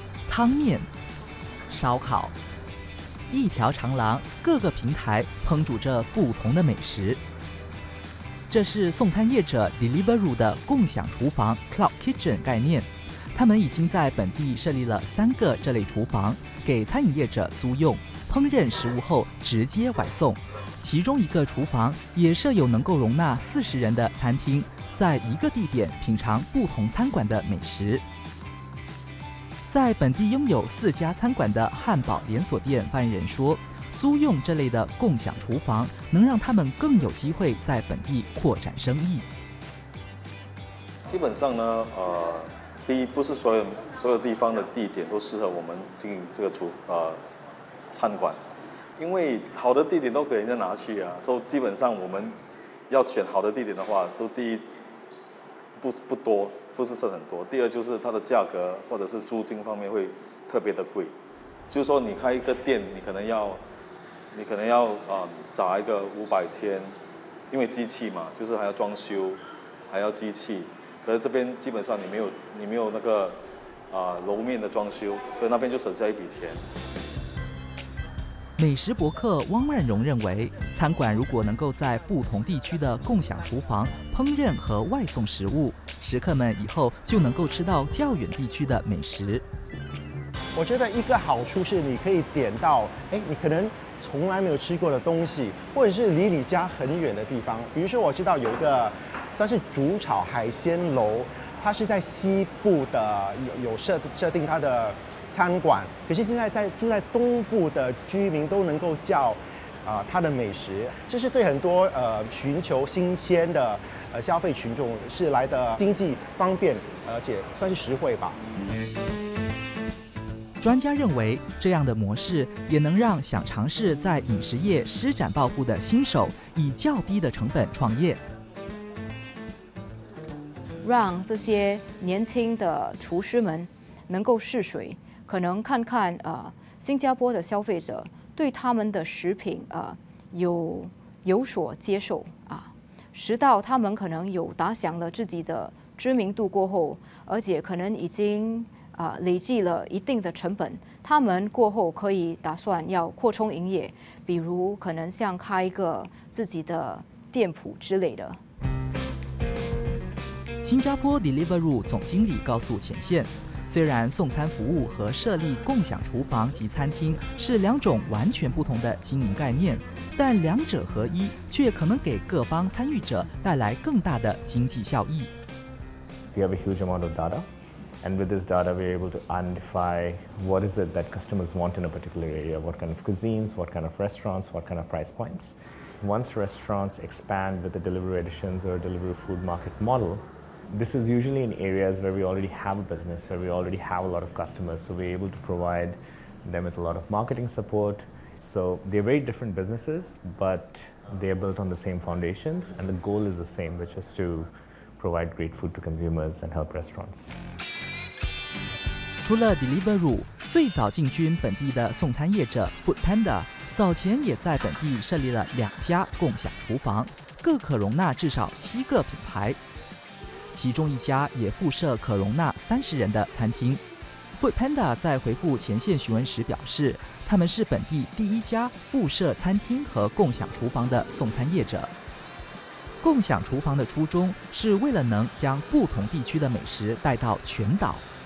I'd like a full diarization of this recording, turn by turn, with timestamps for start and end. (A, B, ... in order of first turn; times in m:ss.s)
0:00.3-0:00.9 A
0:01.7-0:02.4 A
0:03.3-0:07.2 A
0:08.5-0:28.0 A
0:29.7-0:39.2 A
0:41.1-0:47.2 B
0:47.9-0:48.4 B
0:49.0-0:52.4 B
0:52.9-0:54.6 B
0:55.8-1:01.1 B
1:01.7-1:03.6 B
1:04.3-1:07.0 B
1:07.5-1:13.4 B
1:13.9-1:16.6 B
1:18.6-1:29.5 A
1:30.6-1:58.4 C
2:00.6-2:08.2 A
2:10.8-2:38.4 D
2:40.6-2:55.3 A
2:56.3-2:57.4 E
2:58.0-3:27.3 E
3:29.2-3:39.6 A
3:40.5-3:43.8 A
3:44.4-3:51.9 A
3:53.0-3:58.1 A